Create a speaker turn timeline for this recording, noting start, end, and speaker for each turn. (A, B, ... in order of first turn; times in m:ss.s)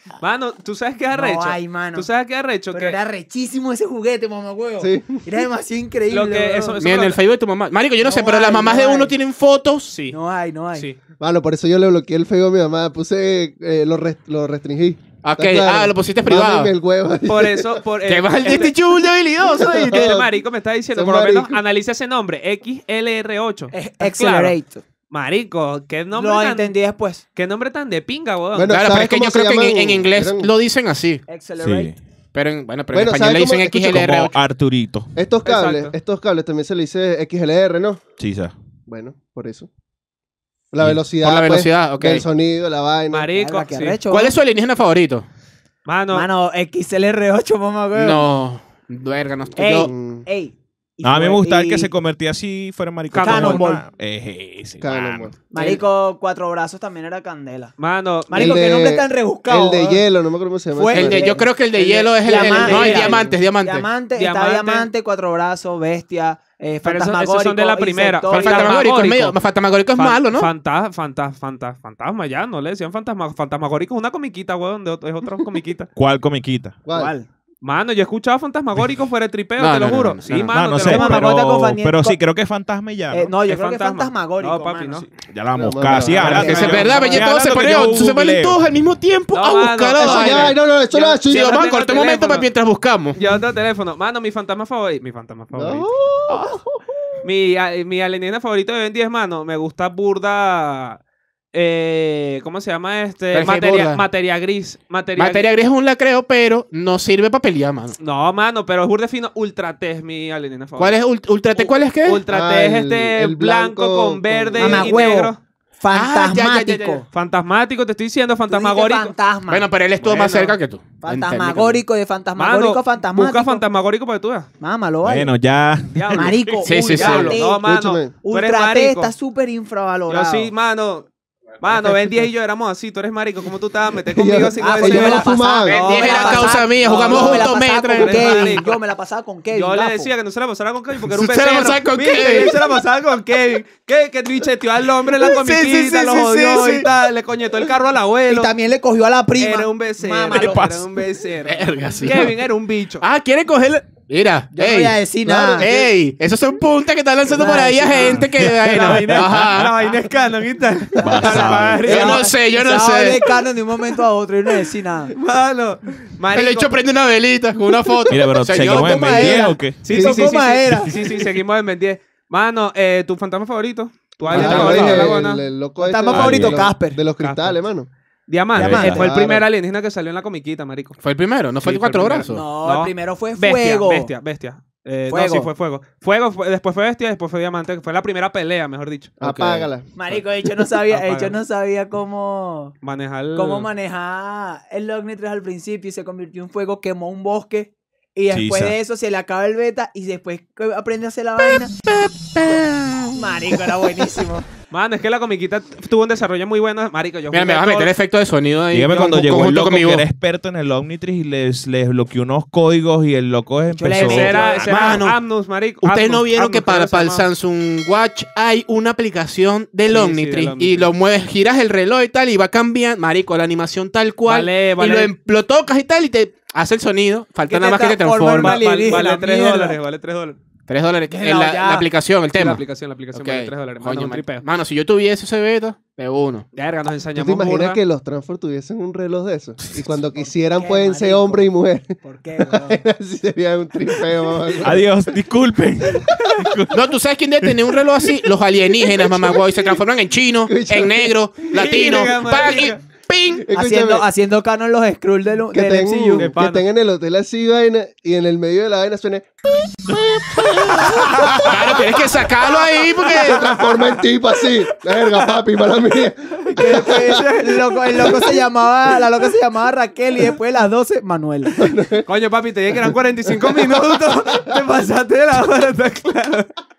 0:00.2-0:03.0 A
0:01.1-0:02.1 B
0:02.7-0:06.8 B
0:04.8-0:05.2 C
0:06.1-0:07.2 A
0:06.8-0:09.9 D
0:08.0-0:09.1 B
0:09.9-0:10.2 A
0:10.1-0:10.9 B
0:11.2-0:17.8 C
0:15.2-0:16.7 D
0:17.2-0:18.8 A
0:18.0-0:20.1 D
0:19.6-0:20.3 C
0:19.8-0:24.5 A
0:20.9-0:21.6 C
0:23.7-0:24.8 B
0:25.1-0:26.8 A
0:26.1-0:27.2 B
0:27.4-0:28.7 A
0:28.5-0:30.5 C
0:28.7-0:31.2 D
0:31.3-0:31.9 B
0:31.6-0:32.0 E
0:32.3-0:34.3 D
0:32.9-0:34.2 C
0:33.8-0:35.1 E
0:35.1-0:38.0 C
0:35.4-0:35.9 A
0:38.2-0:38.5 E
0:38.9-0:39.7 C
0:40.7-0:43.3 C
0:41.2-0:42.2 D
0:43.1-0:44.0 A
0:43.3-0:44.4 B
0:44.1-0:45.2 D
0:45.8-0:46.3 A
0:46.1-0:48.3 B
0:47.9-0:49.9 D
0:49.6-0:51.9 B
0:49.8-0:50.2 C
0:51.0-0:55.3 E
0:53.1-0:53.6 A
0:53.2-0:53.8 B
0:54.8-0:55.3 C
0:55.5-0:57.7 B
0:57.8-0:58.6 A
0:58.3-1:00.0 B
0:58.3-1:01.4 C
1:00.7-1:01.5 B
1:00.9-1:03.9 D
1:01.7-1:03.2 A
1:02.2-1:08.8 B
1:02.6-1:03.4 C
1:04.1-1:04.9 A
1:06.8-1:09.4 A
1:08.3-1:10.5 D
1:09.9-1:15.9 A
1:16.0-1:16.8 E
1:16.8-1:17.1 C
1:16.9-1:17.3 B
1:17.6-1:21.3 A
1:19.6-1:20.5 D
1:20.3-1:23.3 E
1:20.8-1:22.2 B
1:23.1-1:25.1 B
1:23.4-1:25.1 A
1:25.3-1:28.6 E
1:25.5-1:26.6 C
1:26.2-1:30.6 D
1:26.2-1:27.3 B
1:26.5-1:26.8 A
1:29.3-1:32.5 A
1:30.0-1:31.6 C
1:31.3-1:33.2 D
1:33.1-1:35.9 A
1:35.5-1:36.8 C
1:37.2-1:41.0 A
1:41.5-1:45.5 A
1:43.3-1:44.0 D
1:45.2-1:48.0 D
1:48.0-1:51.0 A
1:50.8-1:52.2 D
1:51.5-1:55.4 A
1:52.3-1:54.9 C
1:54.6-1:57.1 B
1:55.9-1:57.0 D
1:57.1-1:59.1 A
1:58.5-1:59.7 B
1:59.5-2:01.8 D
2:00.0-2:00.6 A
2:01.0-2:03.6 B
2:02.4-2:04.5 A
2:04.6-2:05.3 B
2:05.0-2:06.6 E
2:05.9-2:09.1 A
2:06.1-2:07.7 B
2:06.6-2:07.4 D
2:07.4-2:08.1 C
2:08.2-2:10.5 B
2:10.1-2:11.1 A
2:11.6-2:18.8 A
2:14.1-2:15.8 C
2:14.6-2:20.1 B
2:15.7-2:18.6 D
2:19.5-2:28.5 A
2:21.0-2:22.5 D
2:25.4-2:26.8 D
2:25.6-2:26.8 B
2:28.3-2:30.7 B
2:29.4-2:33.0 A
2:30.3-2:30.8 E
2:31.4-2:32.4 D
2:33.0-2:35.0 D
2:34.5-2:35.7 B
2:35.2-2:35.8 C
2:35.5-2:39.7 D
2:37.3-2:38.2 B
2:37.4-2:42.3 A
2:38.6-2:39.5 E
2:41.0-2:42.1 E
2:41.4-2:45.1 B
2:41.8-2:43.2 D
2:45.1-2:46.7 A
2:46.3-2:49.4 D
2:48.1-2:49.9 E
2:48.6-2:50.9 B
2:49.8-2:55.4 A
2:49.9-2:50.3 C
2:54.3-2:55.2 D
2:54.3-2:57.9 C
2:54.4-2:54.9 B
2:55.8-2:57.0 B
2:56.1-2:56.7 E
2:57.2-2:57.6 A
2:58.3-3:01.0 A
2:58.5-2:59.1 E
2:58.6-2:59.0 B
2:58.8-2:59.5 C
3:01.0-3:02.4 D
3:01.6-3:09.2 A
3:02.3-3:04.1 B
3:05.1-3:05.5 B
3:09.2-3:09.9 C
3:09.2-3:09.7 D
3:09.9-3:12.7 B
3:10.9-3:11.4 A
3:12.8-3:13.7 A
3:13.3-3:21.7 B
3:18.3-3:18.7 E
3:21.5-3:23.5 D
3:23.1-3:24.4 B
3:24.7-3:27.9 A
3:27.3-3:30.0 D
3:28.7-3:34.5 E
3:33.7-3:35.0 B
3:33.9-3:37.2 A
3:34.3-3:35.2 D
3:35.8-3:48.6 D
3:39.9-3:40.9 A
3:44.2-3:45.1 A
3:47.5-3:49.8 B
3:48.4-3:50.4 A
3:50.7-3:52.6 D
3:51.1-3:51.9 B
3:52.3-3:54.4 A
3:53.1-3:56.4 D
3:56.5-3:57.8 A
3:57.1-4:05.0 C
4:00.2-4:01.5 B
4:02.0-4:02.8 B
4:04.6-4:06.8 E
4:06.7-4:13.4 D
4:09.0-4:09.7 C
4:10.4-4:11.1 C
4:11.5-4:12.8 A
4:13.4-4:14.0 C
4:13.5-4:16.3 B
4:15.5-4:19.3 C
4:16.2-4:16.6 A
4:19.9-4:21.5 C
4:21.4-4:23.5 D
4:22.7-4:24.0 A
4:23.1-4:27.2 C
4:24.9-4:25.3 A
4:26.6-4:31.7 B
4:26.6-4:28.3 A
4:31.6-4:32.1 C
4:32.0-4:36.5 A
4:33.3-4:34.5 C